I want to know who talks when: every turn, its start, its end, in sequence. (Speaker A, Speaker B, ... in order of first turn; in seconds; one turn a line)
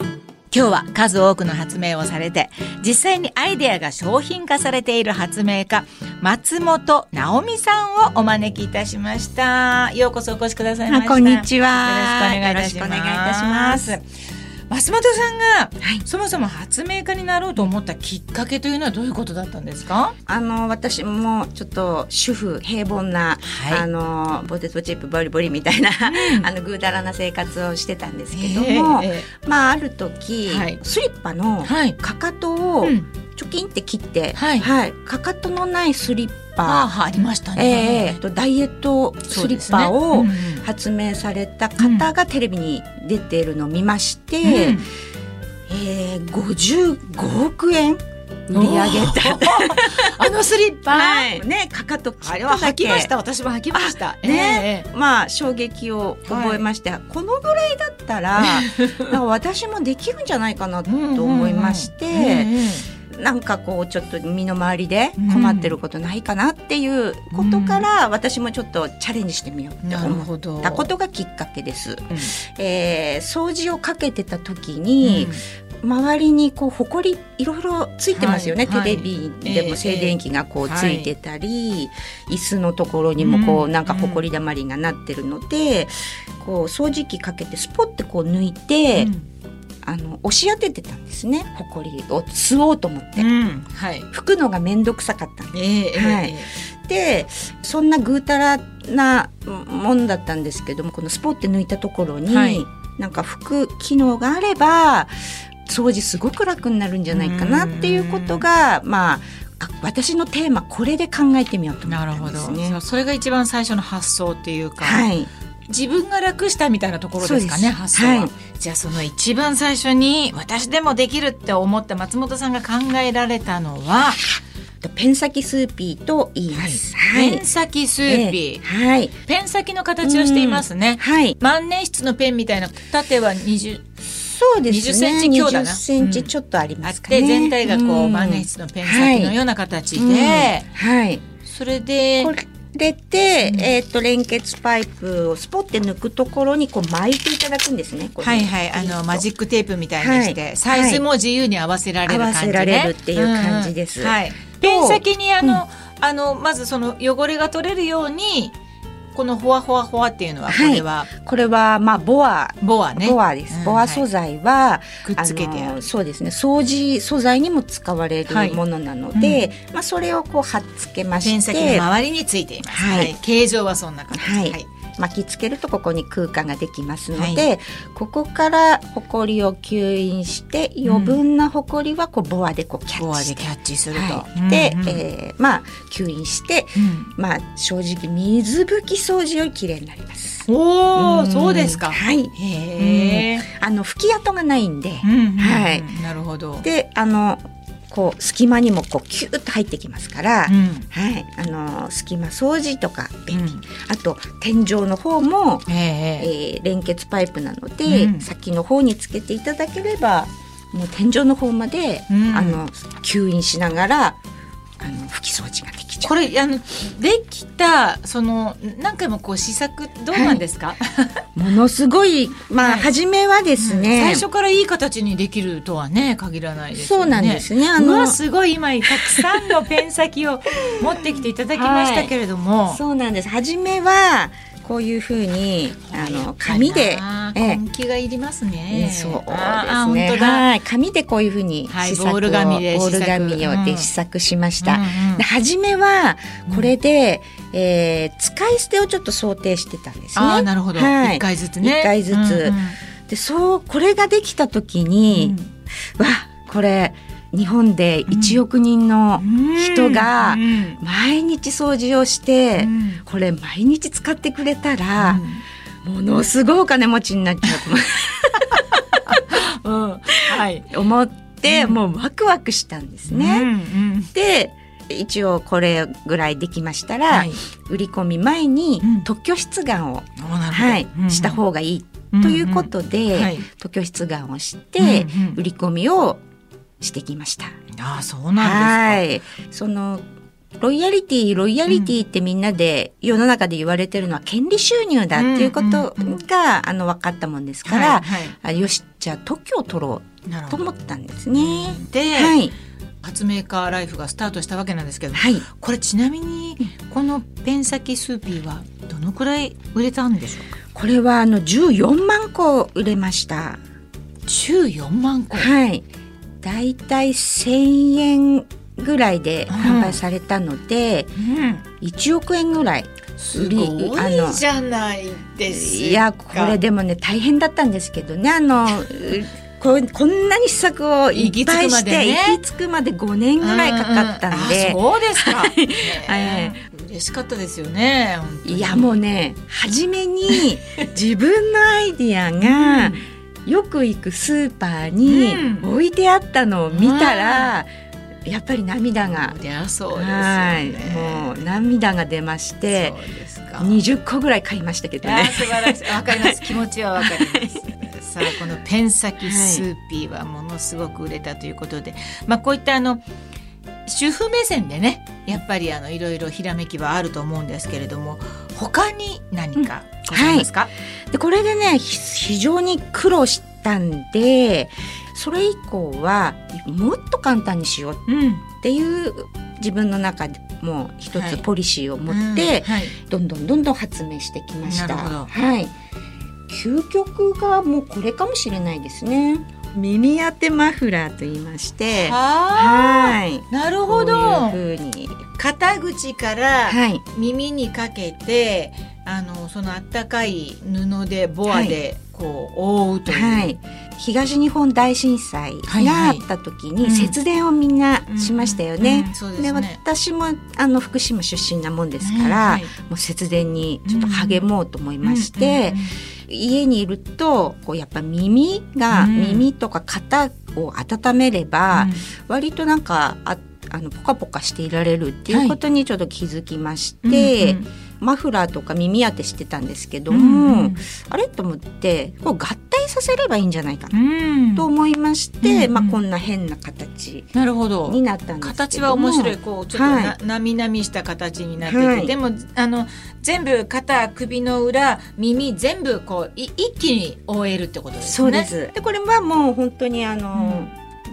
Speaker A: 0.5-14.1
Speaker B: 10.8-13.9
Speaker A: 14.7-20.1
Speaker B: 15.8-16.1
Speaker B: 20.2-36.9
Speaker A: 23.4-23.8
Speaker A: 26.0-26.5
Speaker A: 28.3-29.3
Speaker A: 30.5-30.8
Speaker A: 31.6-32.0
Speaker A: 32.8-33.1
Speaker A: 34.3-34.7
Speaker A: 36.6-38.2
Speaker B: 37.5-44.8
Speaker A: 39.3-40.6
Speaker A: 41.8-42.1
Speaker A: 44.4-44.9
Speaker B: 45.7-50.3
Speaker A: 48.5-51.4
Speaker B: 50.9-53.1
Speaker A: 52.2-54.9
Speaker B: 53.7-62.5
Speaker A: 56.2-56.6
Speaker A: 58.4-59.2
Speaker A: 60.9-62.9
Speaker B: 63.1-89.1
Speaker A: 65.2-65.8
Speaker A: 67.3-67.8
Speaker A: 69.8-70.9
Speaker A: 75.0-75.4
Speaker A: 78.1-81.1
Speaker A: 83.2-84.2
Speaker A: 89.0-89.2
Speaker B: 89.8-93.3
Speaker A: 93.2-94.1
Speaker B: 94.1-105.1
Speaker A: 95.5-96.5
Speaker A: 102.3-102.6
Speaker B: 105.7-112.8
Speaker A: 107.1-108.5
Speaker A: 111.8-115.1
Speaker B: 114.8-115.3
Speaker A: 115.7-124.2
Speaker B: 117.2-118.3
Speaker B: 124.8-127.5
Speaker A: 126.5-128.6
Speaker B: 128.0-129.1
Speaker A: 129.2-133.9
Speaker B: 130.0-131.3
Speaker B: 134.2-139.3
Speaker A: 134.7-136.3
Speaker A: 136.8-140.7
Speaker B: 139.9-141.2
Speaker A: 141.4-142.3
Speaker B: 142.2-149.2
Speaker A: 143.4-143.7
Speaker A: 148.2-158.5
Speaker B: 150.0-151.0
Speaker B: 152.1-155.6
Speaker A: 159.1-161.1
Speaker B: 160.5-171.9
Speaker A: 162.6-164.1
Speaker A: 165.0-165.8
Speaker A: 168.3-168.6
Speaker A: 169.1-169.5
Speaker A: 171.2-174.7
Speaker B: 172.7-173.1
Speaker B: 174.1-195.9
Speaker A: 177.1-177.5
Speaker A: 180.8-181.2
Speaker A: 182.9-185.0
Speaker A: 186.8-187.1
Speaker A: 190.5-193.4
Speaker A: 195.0-196.6
Speaker B: 196.6-214.2
Speaker A: 200.5-200.9
Speaker A: 203.3-203.6
Speaker A: 205.7-206.3
Speaker A: 207.8-208.3
Speaker A: 212.1-212.6
Speaker B: 214.8-216.2
Speaker A: 216.0-221.2
Speaker B: 220.1-220.4
Speaker B: 221.3-224.2
Speaker A: 222.6-222.9
Speaker A: 223.6-232.8
Speaker B: 226.7-228.2
Speaker B: 228.8-229.5
Speaker B: 230.7-232.1
Speaker B: 232.7-237.6
Speaker A: 235.8-240.5
Speaker B: 238.7-255.3
Speaker A: 241.7-243.9
Speaker A: 244.6-245.2
Speaker A: 246.5-246.7
Speaker A: 250.1-252.8
Speaker A: 255.1-255.5
Speaker B: 256.0-265.2
Speaker A: 258.1-258.4
Speaker A: 259.2-260.8
Speaker A: 262.6-263.0
Speaker A: 264.9-265.4
Speaker B: 265.8-269.5
Speaker A: 268.9-270.7
Speaker B: 270.1-273.5
Speaker A: 271.4-271.8
Speaker A: 273.1-274.1
Speaker B: 274.1-286.2
Speaker A: 277.1-277.4
Speaker A: 278.8-279.1
Speaker A: 280.1-281.4
Speaker A: 282.1-283.5
Speaker A: 284.8-285.4
Speaker B: 286.8-287.5
Speaker A: 287.7-289.1
Speaker B: 288.4-290.0
Speaker B: 290.6-302.5
Speaker A: 291.7-291.9
Speaker A: 295.1-296.2
Speaker A: 297.6-298.3
Speaker A: 300.2-300.6
Speaker A: 301.3-302.4
Speaker A: 303.0-310.5
Speaker B: 305.1-305.4
Speaker B: 310.7-313.6
Speaker A: 314.3-315.5
Speaker B: 315.3-315.9
Speaker B: 316.4-321.1
Speaker A: 319.5-320.0
Speaker A: 321.2-321.6
Speaker B: 321.8-324.4
Speaker A: 323.2-326.6
Speaker B: 325.5-336.6
Speaker A: 331.1-332.4
Speaker A: 333.4-339.0
Speaker B: 338.4-347.7
Speaker A: 342.4-343.1
Speaker A: 345.0-345.7
Speaker A: 346.7-347.6
Speaker B: 348.2-349.4
Speaker A: 349.0-351.6
Speaker B: 349.9-352.9
Speaker A: 352.6-353.8
Speaker B: 353.6-358.3
Speaker A: 355.0-363.0
Speaker B: 359.2-359.6
Speaker A: 363.9-370.7
Speaker B: 369.6-370.5
Speaker B: 371.1-378.0
Speaker A: 378.1-378.4
Speaker B: 378.6-385.7
Speaker A: 381.1-381.4
Speaker A: 382.1-382.9
Speaker A: 384.6-385.3
Speaker B: 386.5-395.2
Speaker A: 391.9-394.6
Speaker A: 395.3-403.6
Speaker B: 396.7-397.0
Speaker B: 401.5-401.8
Speaker B: 403.1-434.0
Speaker A: 405.6-406.2
Speaker A: 406.8-407.2
Speaker A: 408.1-409.8
Speaker A: 412.0-412.7
Speaker A: 413.8-414.4
Speaker A: 415.0-416.0
Speaker A: 418.9-419.5
Speaker A: 421.7-422.1
Speaker A: 425.3-425.6
Speaker A: 427.0-427.7
Speaker A: 430.1-430.8
Speaker A: 433.9-434.7
Speaker B: 434.6-437.3
Speaker A: 435.4-436.0
Speaker A: 437.3-448.5
Speaker B: 437.8-440.1
Speaker B: 441.6-442.1
Speaker B: 448.0-450.7
Speaker A: 450.3-450.7